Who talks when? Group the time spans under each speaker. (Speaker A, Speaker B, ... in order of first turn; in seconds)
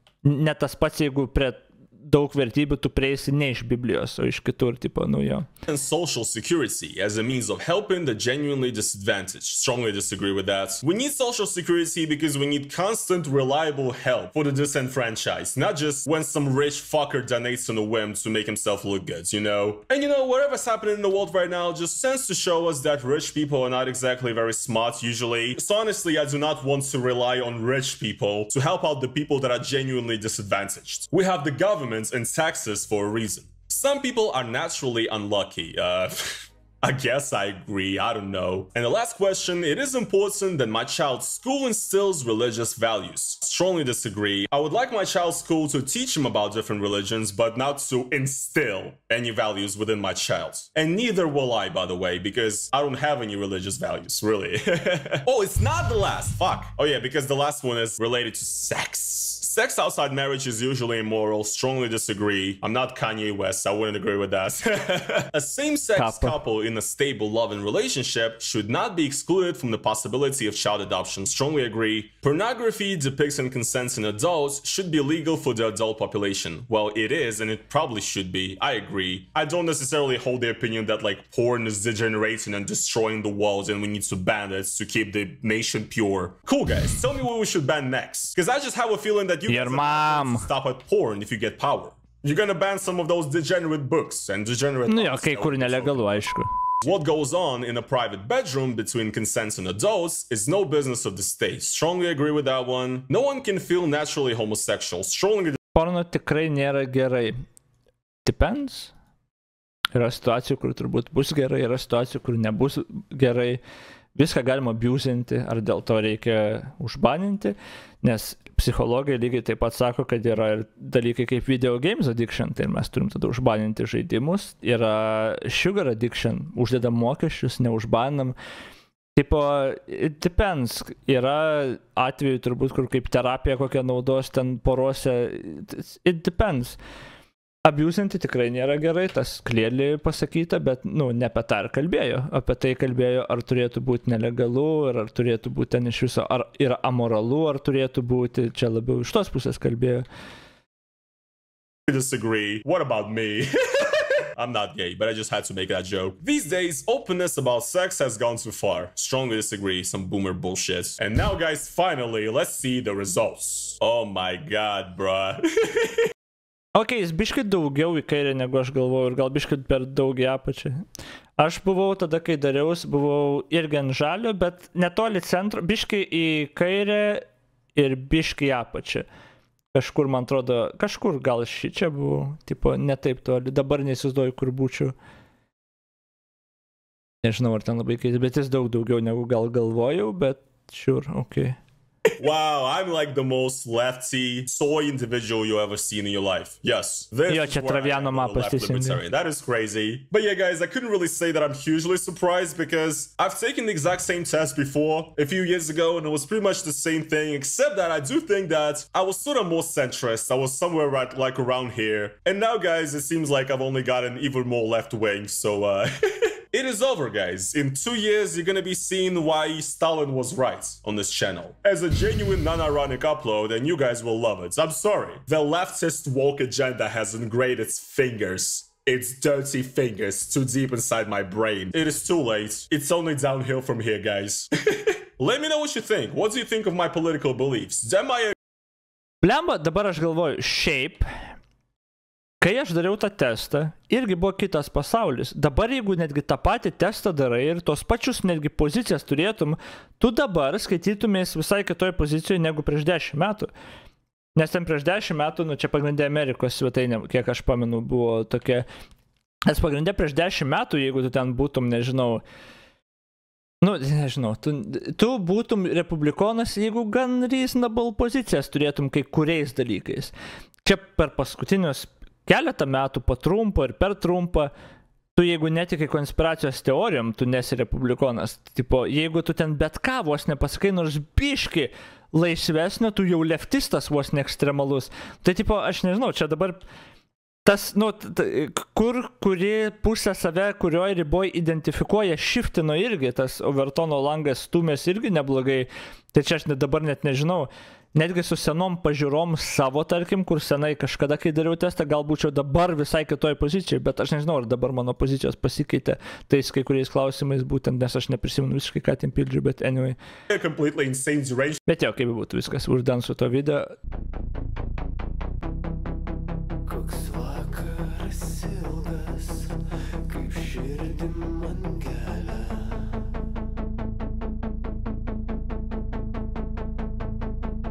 Speaker A: 0.2-5.5, 66.0-66.4, 89.5-90.5, 94.9-96.6, 105.7-107.4, 108.2-108.9, 109.9-113.6, 114.2-128.4, 129.2-136.8, 137.7-150.1, 166.8-170.8, 171.4-179.1, 179.7-184.9, 187.2-191.6, 197.3-199.0, 239.2-241.1, 242.4-253.5, 254.4-258.7, 259.5-262.2, 263.6-274.5, 275.1-286.6, 287.4-310.0, 311.7-313.7
Speaker B: 5.7-96.2, 96.8-105.6, 151.9-166.1, 192.1-238.4, 310.3-311.6
Speaker C: 316.7-323.0